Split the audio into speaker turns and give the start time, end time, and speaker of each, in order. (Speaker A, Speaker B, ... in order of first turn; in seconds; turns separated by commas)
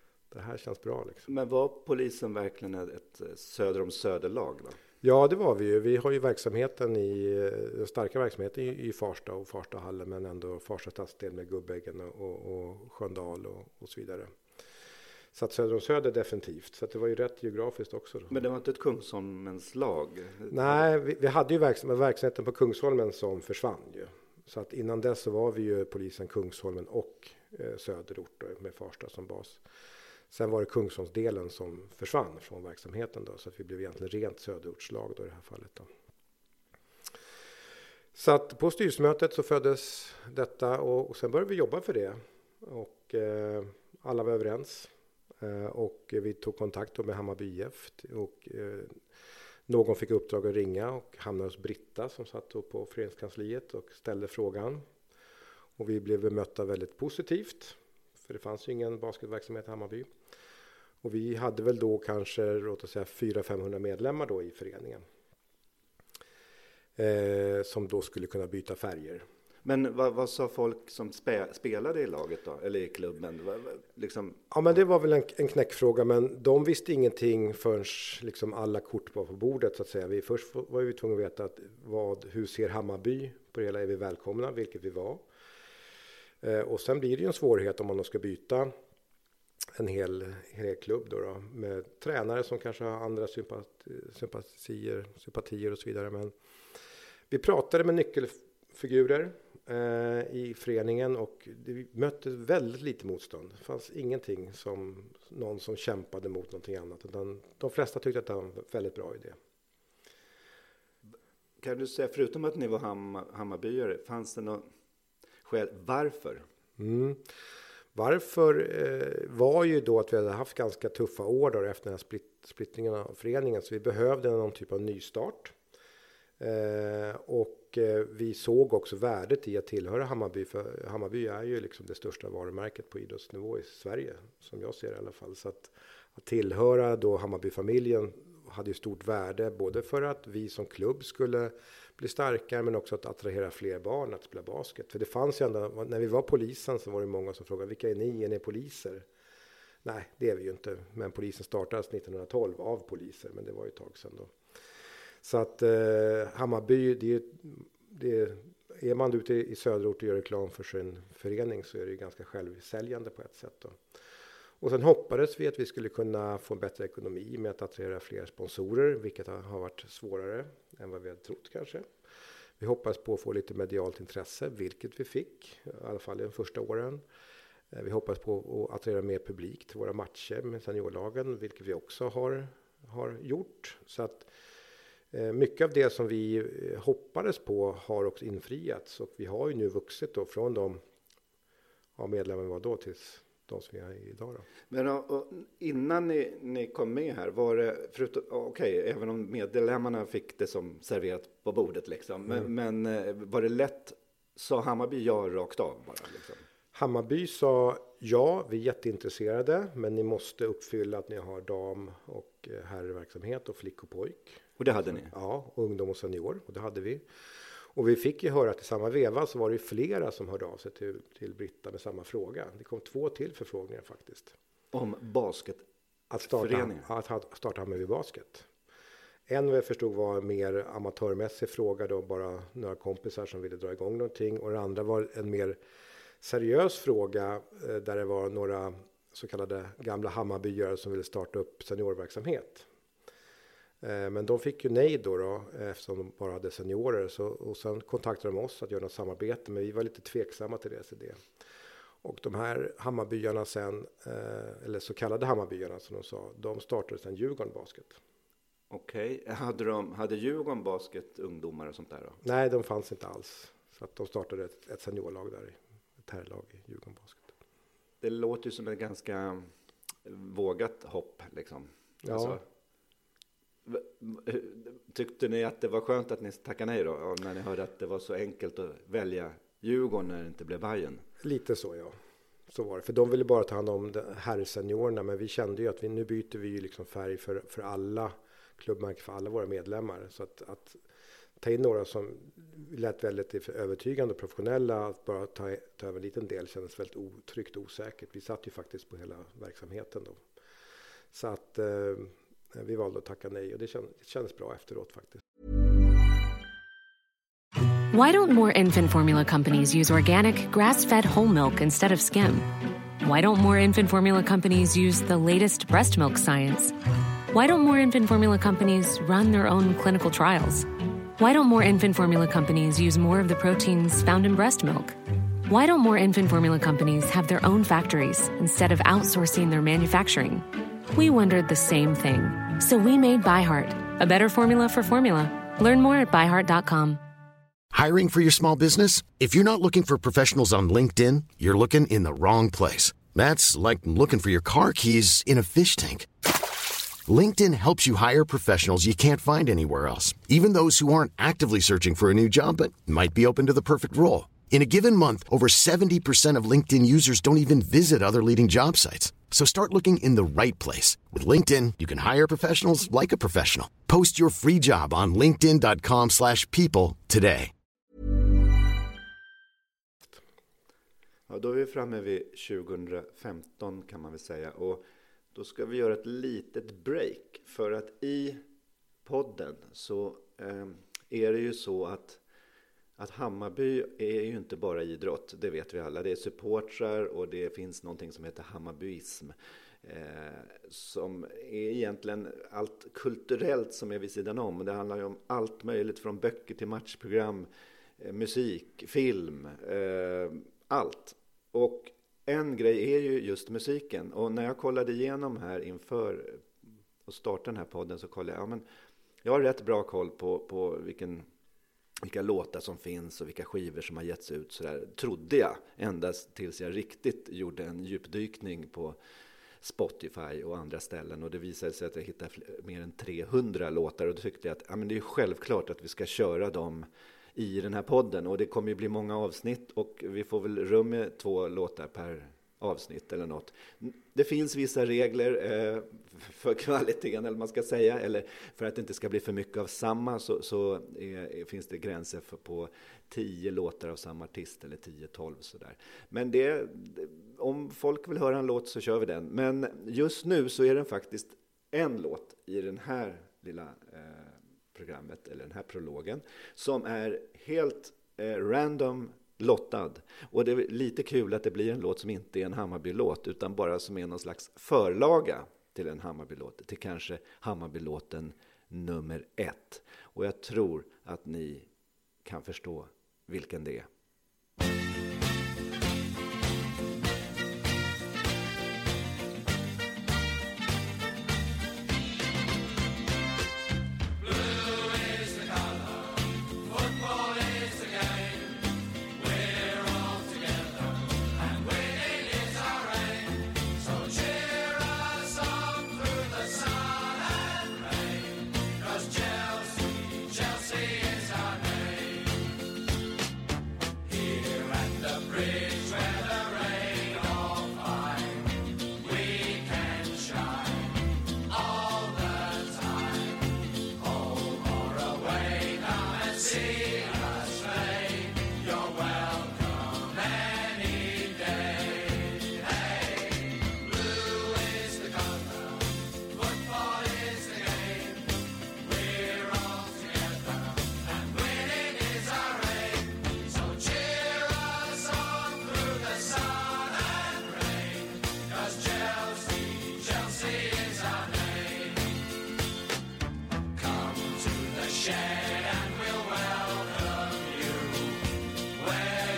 Speaker A: 0.3-1.3, Speaker B: 1.3-4.8, Speaker A: 5.0-14.3, Speaker A: 15.3-18.4, Speaker B: 18.3-20.8, Speaker A: 20.5-29.6, Speaker A: 30.3-35.9, Speaker A: 38.1-49.0, Speaker A: 49.7-54.8, Speaker A: 55.8-60.1, Speaker A: 61.0-65.0, Speaker A: 67.0-69.2, Speaker B: 69.6-74.4, Speaker A: 74.5-85.2, Speaker A: 86.4-88.7, Speaker A: 89.8-96.3, Speaker A: 97.3-109.4, Speaker B: 111.6-114.7, Speaker B: 115.4-116.4, Speaker A: 116.8-117.2, Speaker A: 117.9-125.5, Speaker A: 126.4-149.1, Speaker A: 149.8-154.3, Speaker A: 155.2-163.8, Speaker A: 164.6-171.9, Speaker A: 172.6-177.0, Speaker A: 177.7-184.3, Speaker A: 185.1-190.8, Speaker A: 192.0-194.4, Speaker B: 194.7-206.4, Speaker A: 206.7-217.0, Speaker B: 214.6-215.1, Speaker A: 217.7-224.3, Speaker B: 224.7-225.6, Speaker A: 226.1-228.5, Speaker B: 226.2-226.9, Speaker A: 229.3-235.6, Speaker A: 236.2-242.7, Speaker A: 243.8-251.2, Speaker A: 252.0-258.0, Speaker B: 258.7-262.2, Speaker A: 262.2-267.3, Speaker B: 268.0-269.5, Speaker B: 270.0-272.4, Speaker A: 272.0-272.4, Speaker B: 273.6-281.0, Speaker A: 281.2-281.9, Speaker A: 282.5-290.8, Speaker A: 291.4-300.2, Speaker A: 301.1-305.2, Speaker C: 307.9-316.7, Speaker C: 317.3-337.0, Speaker D: 337.7-346.1, Speaker D: 347.1-367.5, Speaker B: 371.3-378.4, Speaker B: 379.0-382.2, Speaker B: 383.0-397.5, Speaker B: 398.0-406.4, Speaker B: 407.1-408.6, Speaker B: 409.2-411.2, Speaker B: 412.0-419.0, Speaker B: 419.6-471.7, Speaker B: 472.2-473.9